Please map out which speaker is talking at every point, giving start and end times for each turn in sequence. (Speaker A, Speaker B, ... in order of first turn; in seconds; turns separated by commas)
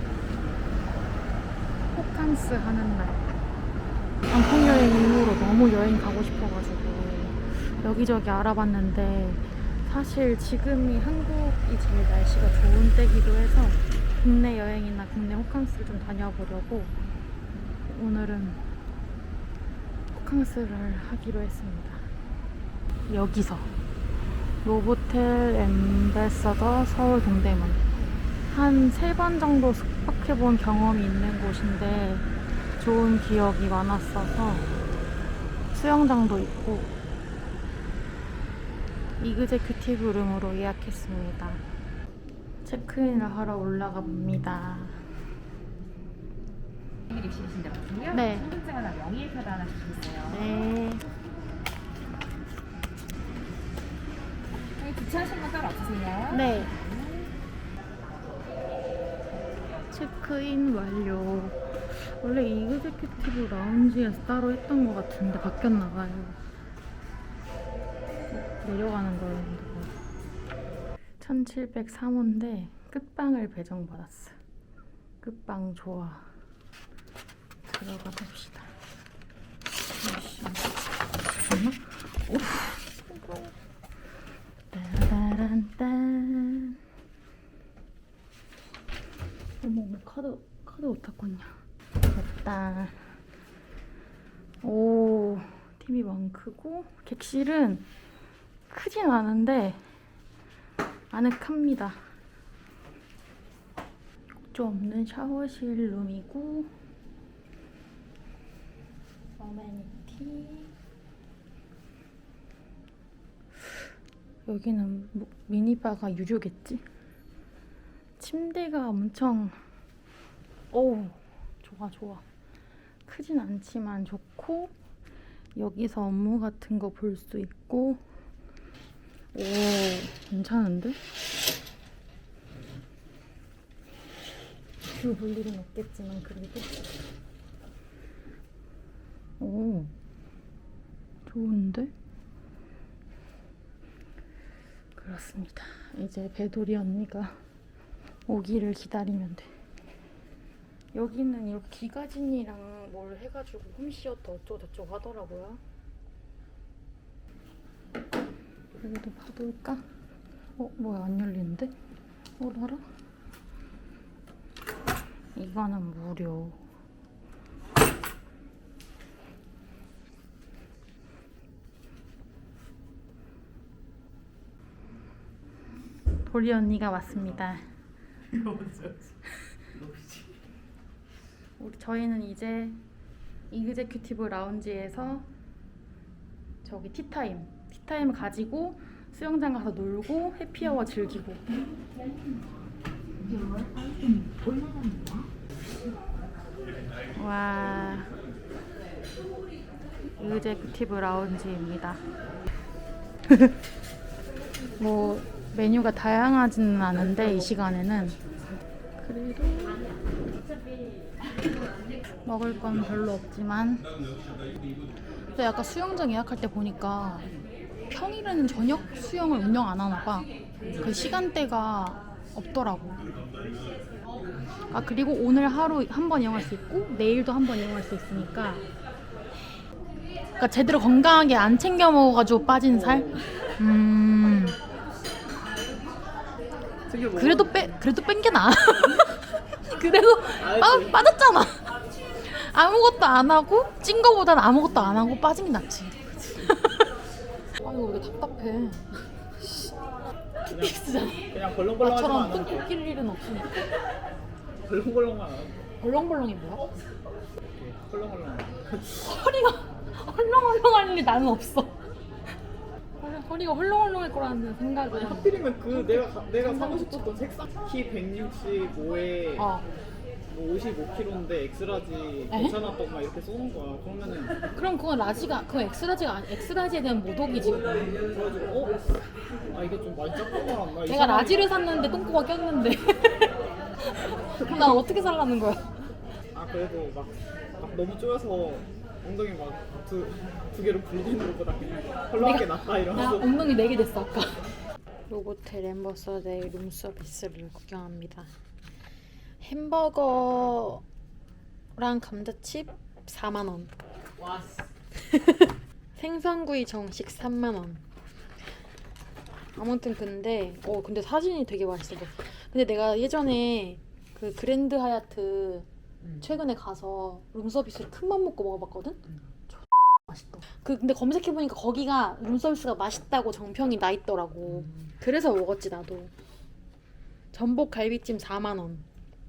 Speaker A: 1.9-3.3, Speaker A: 4.3-16.9, Speaker A: 17.8-18.6, Speaker A: 20.1-22.0, Speaker A: 23.1-23.7, Speaker A: 24.6-27.8, Speaker A: 28.5-34.7, Speaker A: 35.7-36.9, Speaker A: 39.2-41.6, Speaker A: 42.6-45.1, Speaker B: 47.1-50.4, Speaker A: 48.1-48.5, Speaker A: 50.3-51.0, Speaker B: 54.8-57.3, Speaker A: 56.3-56.8, Speaker A: 59.9-66.4, Speaker A: 68.3-69.9, Speaker A: 71.2-74.4, Speaker A: 75.2-76.3, Speaker A: 77.6-78.7, Speaker A: 80.0-80.7, Speaker A: 81.3-83.5, Speaker A: 84.7-86.8, Speaker A: 89.6-91.6, Speaker A: 92.1-93.0, Speaker A: 94.6-97.9, Speaker A: 98.7-99.8, Speaker A: 101.1-102.0, Speaker A: 104.5-106.7, Speaker A: 109.4-110.7, Speaker A: 114.5-116.8, Speaker A: 118.2-119.6, Speaker A: 120.7-122.2, Speaker A: 123.1-124.7, Speaker A: 125.5-128.0, Speaker A: 129.3-131.0, Speaker A: 134.9-136.8, Speaker A: 139.4-139.9, Speaker A: 141.2-141.9, Speaker A: 144.9-147.4, Speaker A: 148.3-149.5, Speaker A: 150.9-155.6, Speaker A: 158.8-159.8, Speaker A: 160.6-161.7, Speaker A: 162.4-162.8, Speaker A: 165.3-166.6, Speaker A: 176.2-177.7, Speaker C: 178.3-179.1, Speaker C: 179.8-180.2, Speaker A: 181.6-182.8, Speaker A: 183.5-185.3, Speaker A: 186.6-191.6, Speaker A: 193.2-195.2, Speaker A: 197.2-198.1, Speaker A: 200.2-202.0, Speaker A: 204.8-208.2, Speaker A: 209.0-209.9, Speaker A: 212.2-213.9, Speaker A: 215.3-217.3, Speaker A: 217.9-223.0, Speaker A: 224.7-228.6, Speaker A: 230.4-234.6, Speaker C: 232.8-233.2, Speaker C: 236.9-237.6, Speaker A: 237.2-246.9, Speaker C: 240.4-241.0, Speaker A: 247.6-249.7, Speaker A: 250.5-251.3, Speaker C: 250.5-252.7, Speaker A: 251.8-253.6, Speaker C: 254.6-255.6, Speaker A: 255.8-256.7, Speaker C: 257.6-258.9, Speaker A: 258.9-261.8, Speaker A: 263.0-267.2, Speaker C: 264.9-269.5, Speaker A: 269.4-269.7, Speaker C: 270.3-274.4, Speaker A: 272.3-272.6, Speaker A: 274.5-278.0, Speaker C: 278.0-278.8, Speaker C: 279.5-281.6, Speaker A: 280.8-283.4, Speaker A: 283.9-285.6, Speaker C: 286.3-293.4, Speaker A: 292.2-294.4, Speaker A: 295.1-298.3, Speaker A: 299.4-300.8, Speaker A: 301.8-303.7, Speaker C: 304.2-304.6, Speaker A: 304.9-307.8, Speaker A: 309.6-326.1, Speaker A: 327.3-328.9